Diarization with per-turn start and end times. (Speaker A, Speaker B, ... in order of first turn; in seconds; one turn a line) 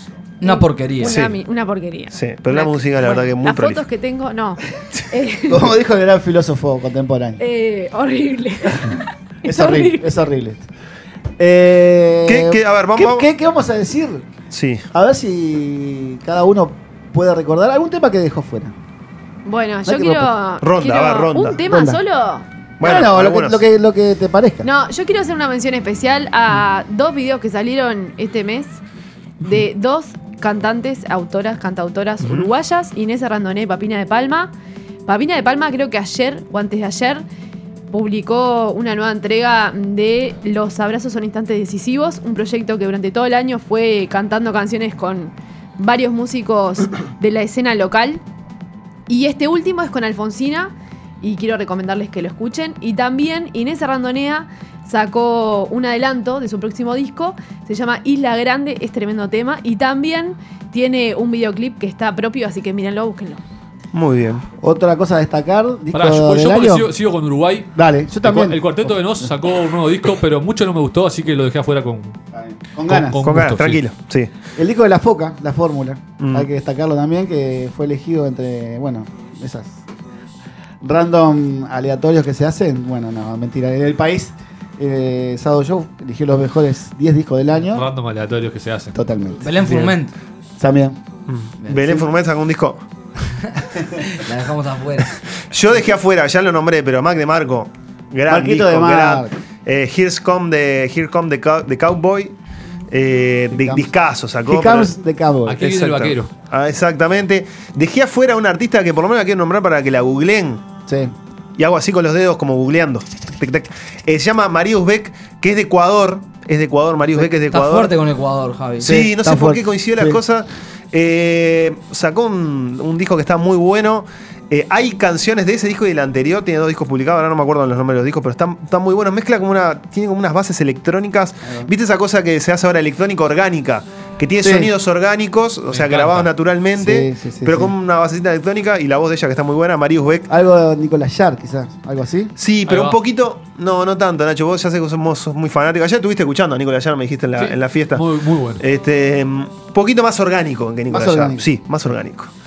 Speaker A: 0.4-1.2
Speaker B: 0.4-5.7
Speaker C: 1.0-1.4
Speaker C: 2.1-3.9
Speaker D: 5.5-7.4
Speaker B: 7.4-10.1
Speaker D: 9.4-10.7
Speaker D: 11.4-14.3
Speaker C: 12.3-13.3
Speaker C: 14.5-14.8
Speaker D: 14.9-18.7
Speaker B: 19.4-22.4
Speaker D: 19.9-20.3
Speaker C: 20.6-21.6
Speaker D: 21.6-22.0
Speaker C: 22.8-23.6
Speaker D: 22.8-24.7
Speaker B: 24.6-28.8
Speaker B: 29.4-34.5
Speaker C: 32.2-32.5
Speaker B: 35.1-37.2
Speaker B: 37.9-48.2
Speaker B: 49.1-63.4
Speaker C: 63.9-64.4
Speaker D: 64.6-66.9
Speaker E: 65.9-72.2
Speaker D: 67.8-69.3
Speaker D: 72.3-73.3
Speaker E: 72.9-73.8
Speaker C: 73.2-74.3
Speaker D: 74.6-79.8
Speaker C: 76.2-76.5
Speaker D: 80.8-87.9
Speaker E: 87.6-89.0
Speaker D: 89.0-89.4
Speaker A: 89.4-90.1
Speaker D: 90.6-91.0
Speaker C: 91.3-92.8
Speaker A: 91.6-92.0
Speaker A: 93.4-95.1
Speaker C: 95.5-102.4
Speaker D: 98.3-99.3
Speaker C: 102.9-104.9
Speaker D: 103.5-103.9
Speaker D: 104.5-105.7
Speaker E: 105.5-106.3
Speaker C: 105.6-110.7
Speaker D: 110.9-111.1
Speaker C: 111.6-117.9
Speaker A: 117.5-119.0
Speaker C: 118.8-140.3
Speaker D: 118.8-120.2
Speaker D: 134.4-134.7
Speaker E: 135.7-136.3
Speaker D: 136.8-137.7
Speaker D: 140.3-142.3
Speaker C: 142.4-148.0
Speaker E: 142.7-143.0
Speaker E: 147.4-148.6
Speaker C: 148.6-152.3
Speaker D: 150.9-151.4